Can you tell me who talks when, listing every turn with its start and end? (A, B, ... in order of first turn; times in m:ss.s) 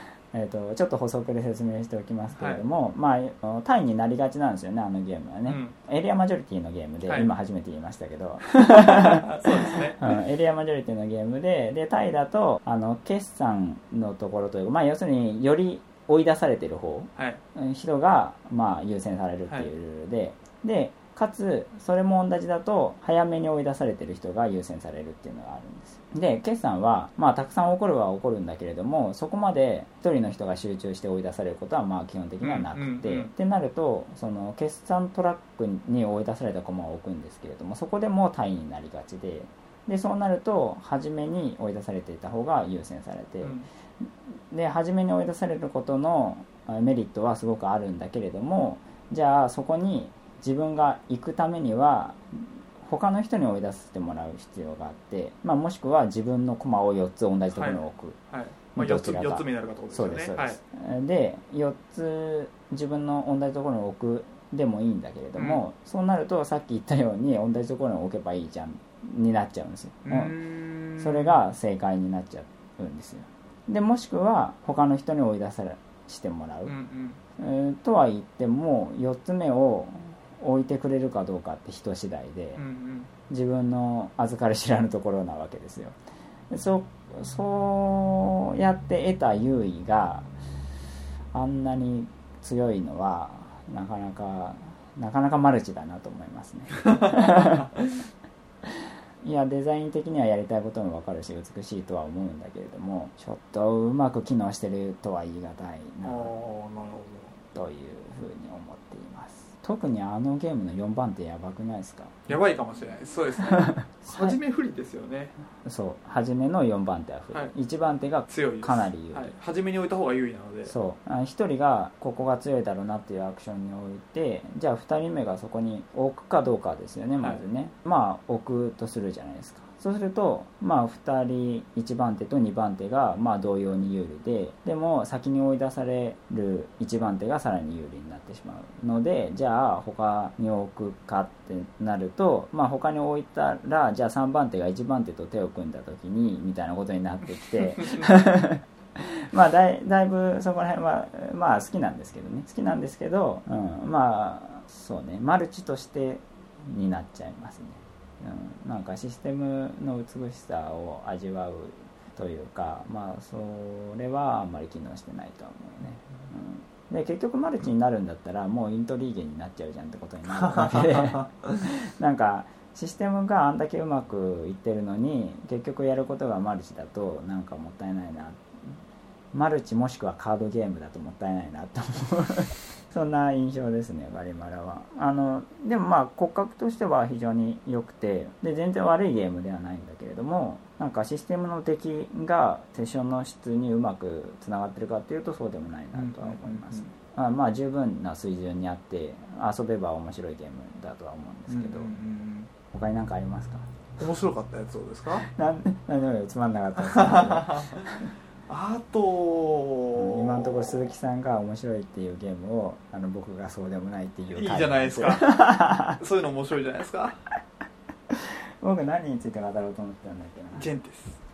0:00.3-0:58.2 A
0:02.4-0:02.6 B
0:05.4-0:05.7 B
0:08.6-0:10.2 B
0:32.4-0:33.3 B
0:43.4-0:43.7 B
0:57.5-1:00.6 B
0:58.7-1:10.3 A
1:05.4-1:05.6 B
1:10.0-1:11.4 B
1:11.0-1:16.7 A
1:16.6-1:17.2 B
1:17.4-1:22.6 A
1:22.6-1:23.1 B
1:23.3-1:26.0 A
1:26.5-1:30.3 A
1:31.3-1:37.7 A
1:36.8-1:37.9 B
1:38.6-1:46.3 A
1:46.0-1:47.3 B
1:47.5-1:52.3 A
1:52.3-1:55.3 B
1:53.5-1:54.4 A
1:55.6-1:59.3 A
1:58.3-2:00.7 B
2:00.6-2:58.8 A
2:50.4-2:51.3 B
2:59.3-3:22.0 A
3:15.9-3:16.9 B
3:21.5-3:22.5 B
3:22.7-3:23.7 A
3:24.0-3:25.2 B
3:25.2-3:28.1 A
3:26.9-3:27.9 B
3:28.5-3:30.8 B
3:29.9-3:36.0 A
3:34.3-3:35.3 B
3:36.0-3:37.2 B
3:38.1-3:40.7 A
3:40.5-3:41.2 B